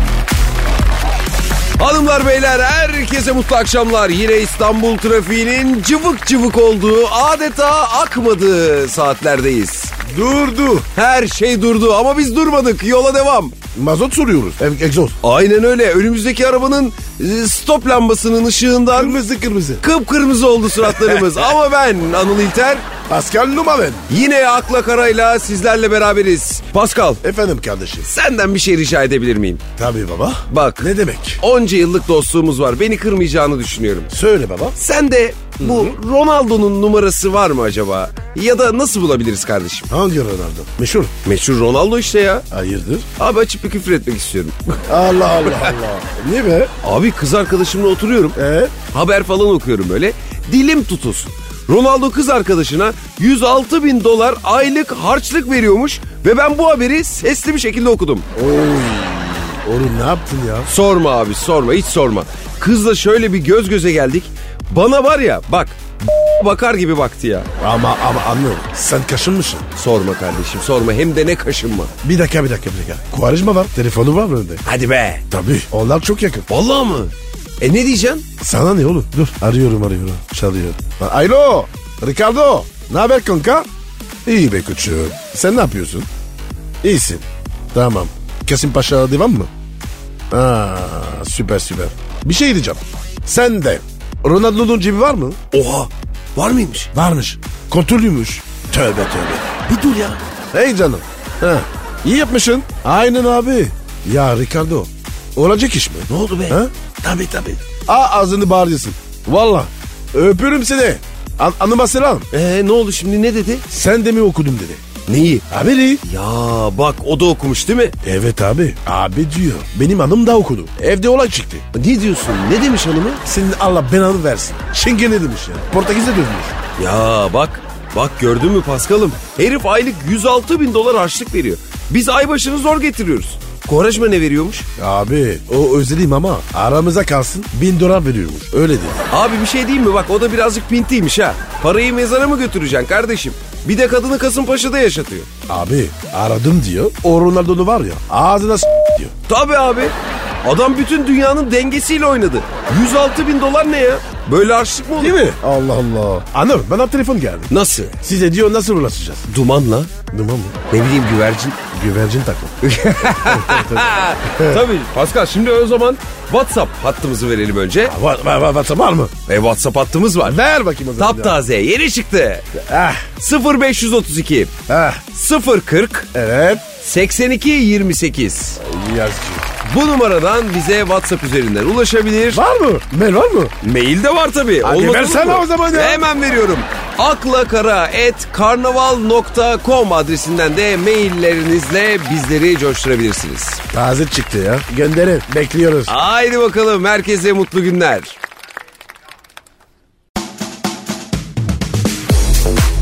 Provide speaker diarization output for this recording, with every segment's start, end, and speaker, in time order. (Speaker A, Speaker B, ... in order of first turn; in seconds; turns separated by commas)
Speaker A: 1.8-9.9, Speaker B: 10.1-10.9, Speaker A: 10.9-13.6, Speaker B: 13.7-15.2, Speaker A: 15.2-19.2, Speaker B: 18.9-19.8, Speaker A: 19.8-22.9, Speaker B: 20.8-21.2, Speaker B: 23.1-24.1, Speaker A: 24.1-27.2, Speaker B: 27.2-28.1, Speaker A: 28.0-29.6, Speaker B: 29.8-31.4, Speaker A: 30.5-34.1, Speaker B: 34.1-34.8, Speaker A: 34.8-39.9, Speaker B: 35.6-35.9, Speaker B: 39.9-41.1, Speaker A: 41.2-42.4, Speaker B: 42.5-43.0, Speaker A: 43.1-44.8, Speaker B: 44.9-46.7, Speaker A: 45.4-45.7, Speaker A: 46.8-48.4, Speaker B: 48.4-48.7, Speaker A: 48.9-58.3, Speaker B: 58.3-60.7, Speaker A: 60.6-67.5, Speaker B: 67.6-69.7, Speaker A: 69.8-71.9, Speaker B: 72.0-74.6, Speaker A: 74.6-75.2, Speaker B: 75.3-76.5, Speaker A: 76.5-78.2, Speaker B: 78.4-83.7, Speaker B: 84.2-86.1, Speaker B: 86.8-89.5, Speaker B: 90.3-95.4, Speaker A: 95.5-96.9, Speaker B: 96.9-99.5, Speaker A: 99.7-100.2, Speaker B: 100.5-112.3, Speaker A: 106.1-106.6, Speaker A: 112.3-113.6, Speaker B: 113.7-114.8, Speaker A: 115.1-115.4, Speaker B: 115.5-116.0, Speaker A: 116.0-117.9, Speaker B: 118.0-121.6, Speaker A: 121.7-123.2, Speaker B: 123.2-126.5, Speaker A: 126.8-134.7, Speaker B: 134.8-139.0, Speaker A: 139.1-145.3, Speaker B: 145.5-149.1, Speaker A: 149.3-155.2, Speaker B: 155.0-159.2, Speaker A: 157.5-157.9, Speaker A: 159.3-159.9, Speaker B: 160.1-160.6, Speaker A: 160.7-161.6, Speaker B: 161.7-162.5, Speaker A: 162.6-167.9, Speaker B: 163.2-164.6, Speaker B: 167.9-169.1, Speaker A: 169.3-170.4, Speaker B: 170.2-171.4, Speaker A: 171.0-172.5, Speaker B: 172.6-173.1, Speaker A: 173.2-174.5, Speaker B: 174.7-175.0, Speaker A: 175.1-176.1, Speaker B: 176.1-176.6, Speaker A: 176.8-178.6, Speaker B: 178.6-179.4, Speaker A: 179.6-182.4, Speaker B: 182.3-183.5, Speaker A: 183.6-193.6, Speaker B: 184.6-186.1, Speaker B: 193.7-195.9, Speaker A: 195.9-198.2